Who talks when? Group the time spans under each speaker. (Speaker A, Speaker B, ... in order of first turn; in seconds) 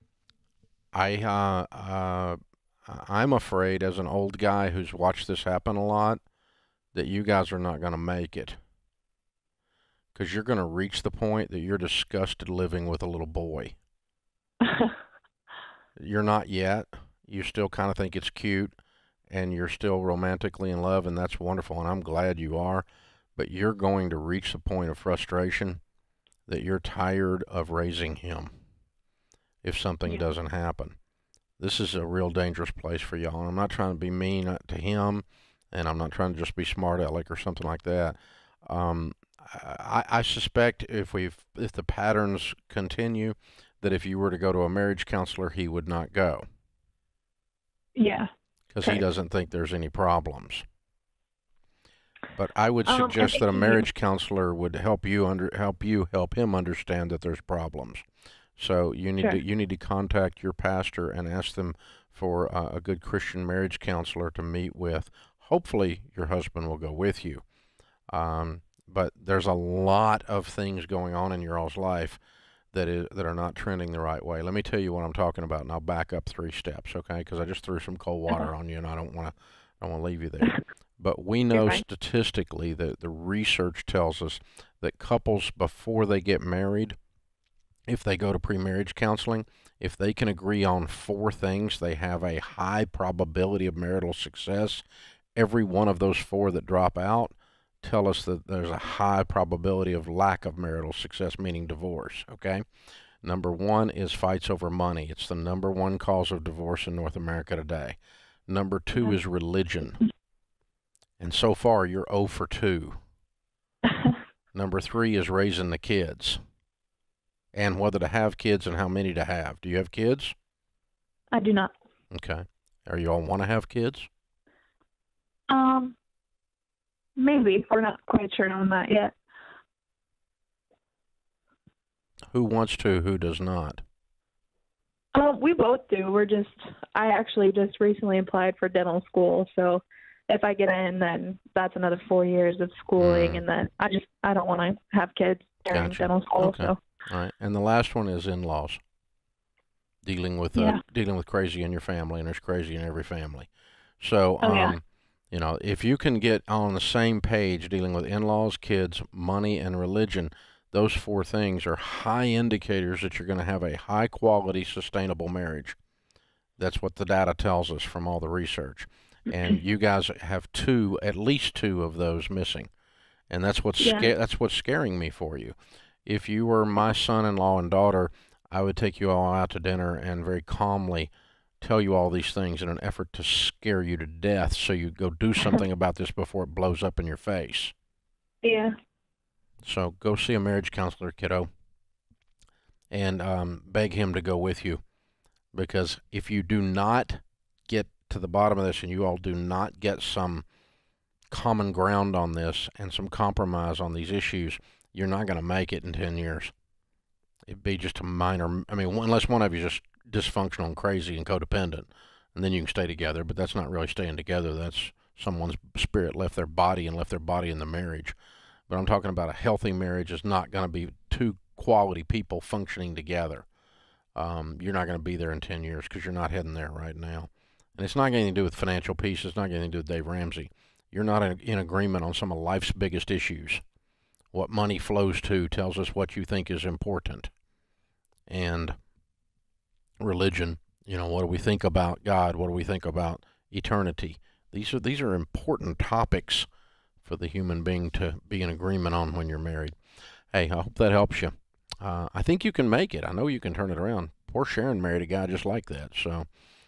Speaker A: 0.9-6.2, 6.9-8.6, 10.1-13.8, 16.0-18.8, 19.3-22.8, 23.4-25.8, 26.5-28.5, 29.6-30.9, 31.6-46.4, 48.7-50.6, 52.4-58.0, 58.6-67.4, 68.1-72.2, 72.7-87.0, 87.9-94.8, 95.3-102.6, 103.2-110.0, 111.2-113.0, 114.5-116.4, 117.5-120.3, 122.1-124.1, 132.3-133.8, 143.0-143.4, 145.7-148.8, 150.0-165.8, 166.6-172.7, 173.3-187.7, 189.6-191.5, 192.9-194.8, 195.5-200.4, 201.3-206.5, 207.5-218.2, 218.7-223.4, 224.2-233.6, 234.3-237.3, 238.3-238.8, 240.0-246.5, 247.0-249.8, 250.3-256.2
Speaker B: 14.7-14.9, 47.9-48.3, 52.9-53.8, 81.5-81.8, 121.3-121.7, 125.5-126.0, 127.2-129.1, 135.1-146.8, 150.5-150.8, 154.4-154.8, 173.8-174.1, 188.4-188.7